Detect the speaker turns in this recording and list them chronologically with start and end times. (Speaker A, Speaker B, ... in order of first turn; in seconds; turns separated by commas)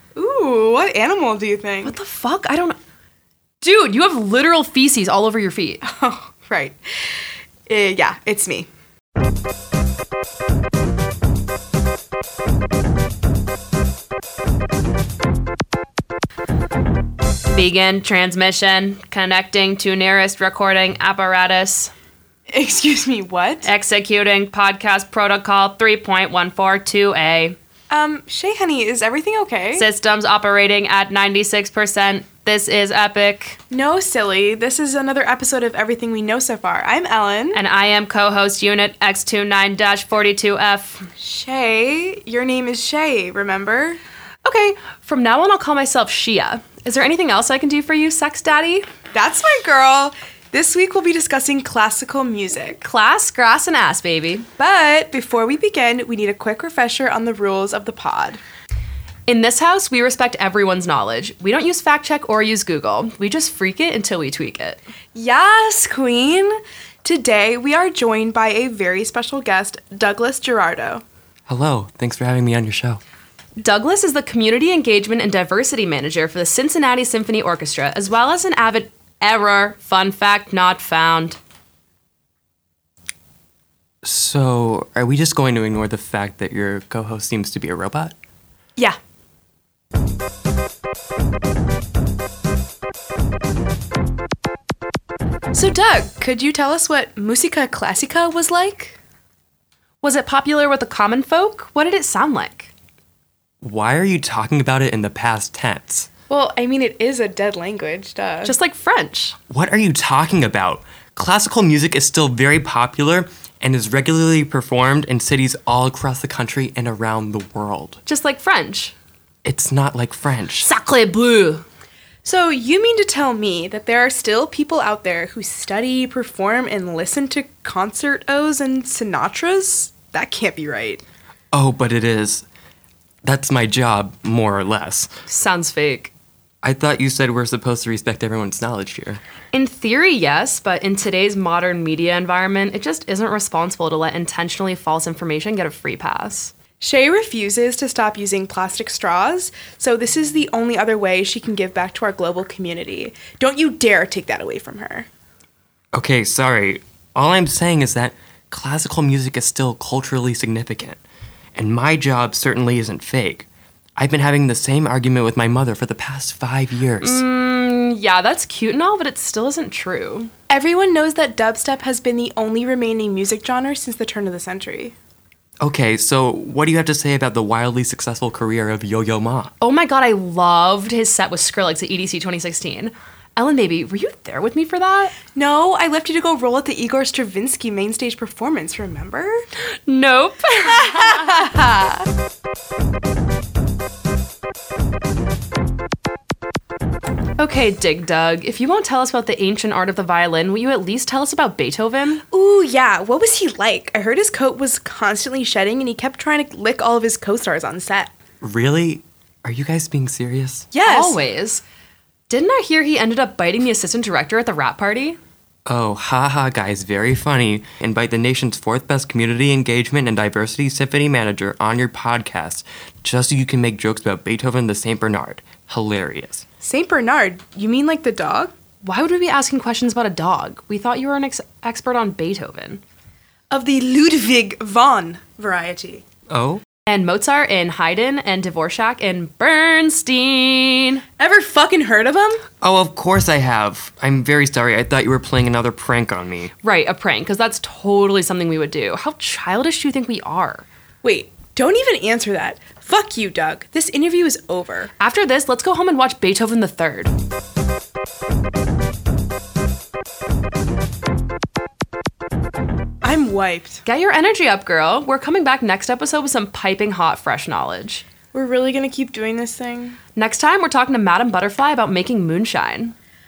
Speaker A: 0.1-2.0, Speaker B: 1.8-2.8, Speaker B: 3.6-5.8, Speaker A: 5.8-6.8, Speaker A: 7.7-8.7, Speaker B: 17.5-21.9, Speaker A: 22.5-23.7, Speaker B: 23.6-27.6, Speaker A: 27.9-29.9, Speaker B: 29.8-33.6, Speaker A: 33.7-37.6, Speaker B: 37.5-41.1, Speaker A: 41.2-44.0, Speaker B: 44.4-48.9, Speaker A: 49.1-52.9, Speaker B: 52.8-54.5, Speaker A: 54.6-58.4, Speaker B: 59.3-64.8, Speaker A: 65.2-71.0, Speaker C: 71.5-73.0, Speaker B: 73.6-81.4, Speaker C: 84.0-88.2, Speaker A: 95.9-99.0, Speaker B: 100.0-102.7, Speaker C: 103.6-106.1, Speaker A: 106.3-108.5, Speaker B: 108.4-109.4, Speaker C: 109.5-118.0, Speaker B: 118.1-119.0, Speaker C: 119.4-120.7, Speaker B: 120.6-121.6, Speaker A: 122.2-131.0, Speaker C: 131.5-132.5, Speaker C: 133.2-135.1, Speaker B: 135.3-136.1, Speaker C: 136.6-139.2, Speaker B: 139.5-146.5, Speaker A: 146.8-155.1, Speaker C: 155.9-161.0, Speaker C: 161.6-167.2, Speaker B: 167.0-170.3, Speaker A: 170.5-174.9, Speaker C: 175.6-179.5, Speaker B: 179.6-185.2, Speaker A: 185.3-189.4, Speaker B: 189.9-191.5, Speaker A: 190.7-192.0, Speaker B: 197.4-202.2, Speaker A: 202.3-208.1, Speaker C: 208.4-210.7, Speaker A: 210.7-211.2, Speaker B: 210.8-211.6, Speaker B: 212.3-215.2, Speaker C: 215.7-226.4, Speaker A: 226.6-228.5, Speaker B: 228.8-232.8, Speaker A: 233.5-236.0, Speaker C: 236.3-236.6, Speaker B: 236.9-241.1, Speaker A: 241.2-242.4, Speaker C: 242.6-246.5, Speaker B: 246.6-250.7, Speaker A: 251.0-254.9, Speaker B: 255.0-257.1, Speaker A: 263.0-263.8, Speaker B: 263.9-268.1, Speaker A: 268.3-270.0, Speaker B: 270.1-272.9